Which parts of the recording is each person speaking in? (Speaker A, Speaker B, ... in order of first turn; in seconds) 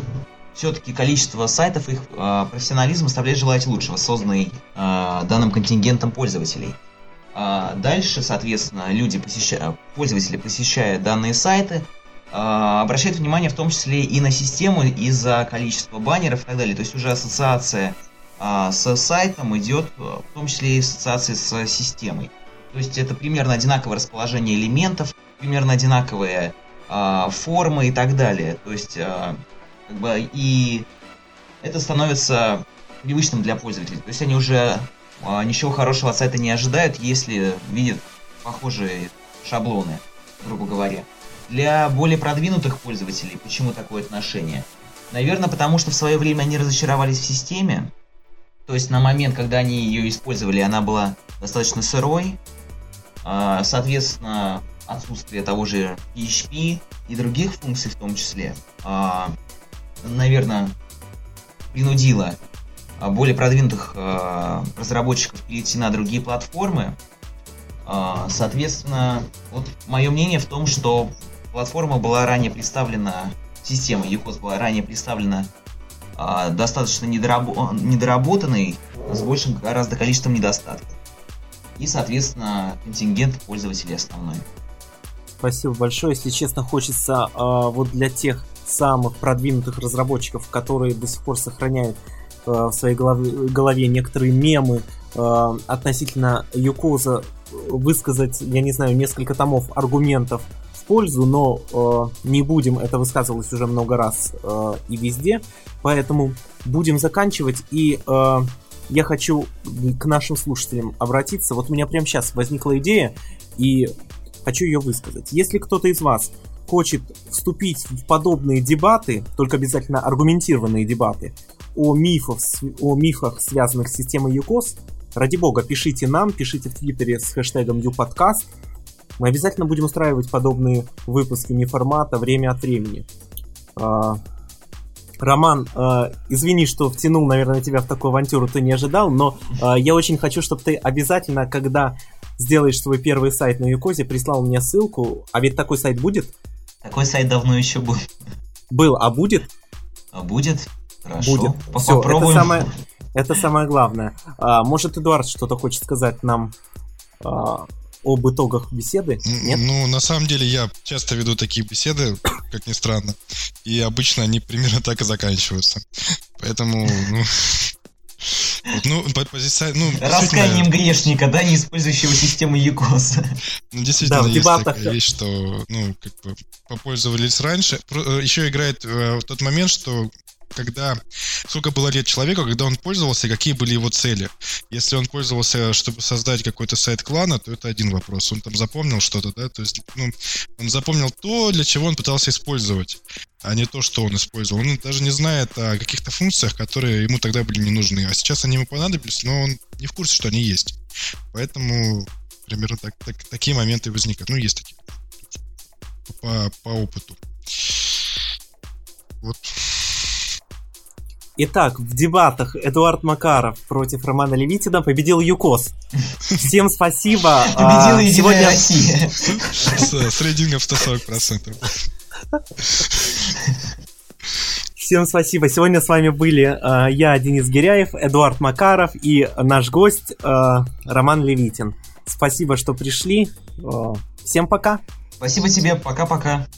Speaker A: 0.5-6.8, 7.3-30.9, 31.6-47.9, 48.7-52.4, 53.2-59.4, 60.0-60.8, 61.7-62.4, 63.0-67.0, 67.8-75.5, 76.2-81.0, 81.8-84.5, 146.8-148.1, 150.1-152.7, 170.0-173.4, 217.5-219.9, 235.2-236.5
Speaker B: 85.4-113.9, 114.5-128.5, 129.2-133.1, 133.8-134.2, 135.2-146.3, 148.7-149.5, 151.2-156.5, 157.2-159.6, 174.0-175.0, 211.4-215.7, 216.3-218.7, 224.8-234.8
Speaker C: 159.2-167.7, 168.7-170.7, 173.7-200.8, 201.3-205.4, 206.1-208.0, 209.2-210.1, 219.3-221.9, 222.6-223.2